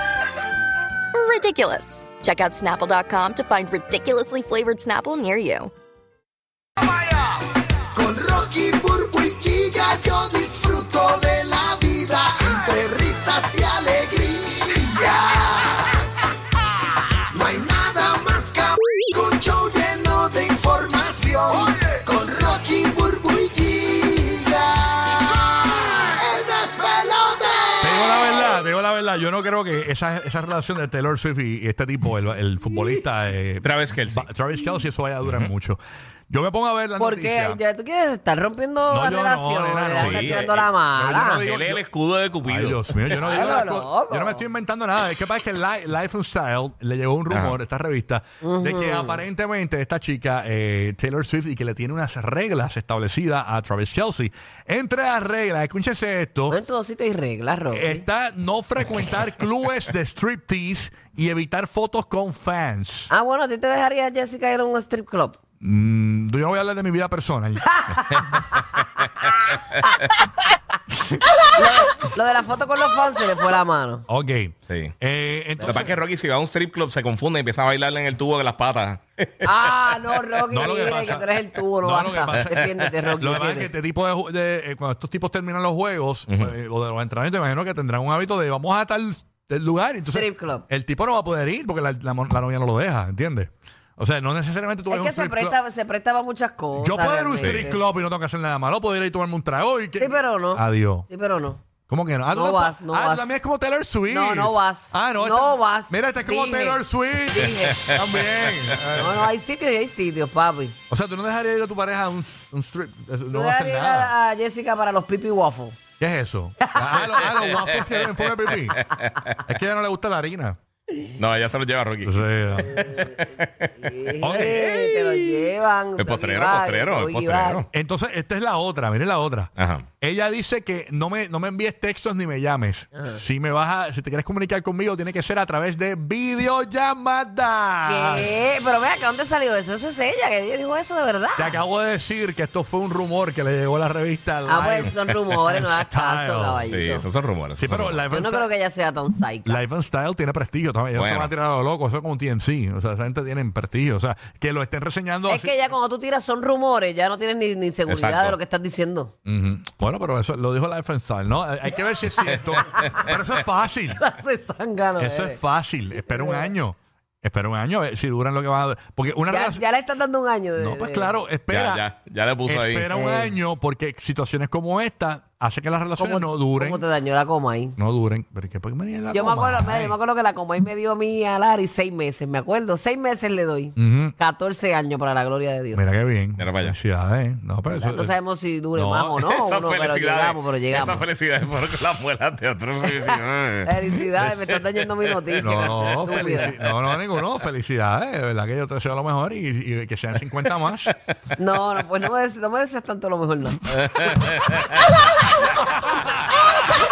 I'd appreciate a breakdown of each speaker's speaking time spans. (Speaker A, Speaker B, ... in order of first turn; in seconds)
Speaker A: 1.1-5.7
Speaker B: 7.9-16.3, 17.3-28.2
Speaker C: 27.8-37.6, 38.9-41.8, 42.4-56.6, 57.7-63.1, 65.6-68.2, 70.9-71.2, 74.1-75.9, 80.5-95.6, 96.8-101.1, 101.9-109.3, 110.9-114.1, 116.0-120.6, 122.0-122.9, 124.2-125.3, 127.7-138.3, 141.4-145.0, 145.5-146.8, 147.6-148.5, 149.5-155.5, 159.2-164.0, 165.0-169.6, 170.6-171.9, 172.5-176.8, 177.8-180.0, 183.8-184.2, 185.7-188.1, 188.7-189.2, 195.4-200.9
Speaker D: 33.6-34.3, 35.2-35.5, 39.9-40.6, 41.4-43.4, 47.3-47.6, 68.3-70.0, 75.6-79.6, 97.4-97.7, 117.8-119.2, 121.2-123.9, 126.0-127.7, 129.6-129.9, 146.7-148.0, 151.0-151.3, 157.9-158.4, 171.5-172.9, 186.4-186.8, 189.2-197.3, 203.8-204.7
Speaker E: 37.0-41.5, 43.2-44.5, 48.4-49.2, 56.5-58.1, 63.1-65.4, 71.5-74.1, 79.4-83.7, 90.0-90.7, 94.9-97.8, 100.0-101.6, 102.3-103.3, 104.1-107.9, 108.9-110.8, 113.3-115.8, 116.6-117.5, 122.8-123.2, 123.8-127.7, 132.9-133.2, 137.9-141.6, 144.5-147.1, 148.1-149.6, 155.3-159.1, 164.0-165.4, 166.0-166.5, 169.3-171.2, 172.9-173.4, 176.0-177.8, 179.1-185.8, 187.7-191.1, 193.0-196.6, 201.4-203.6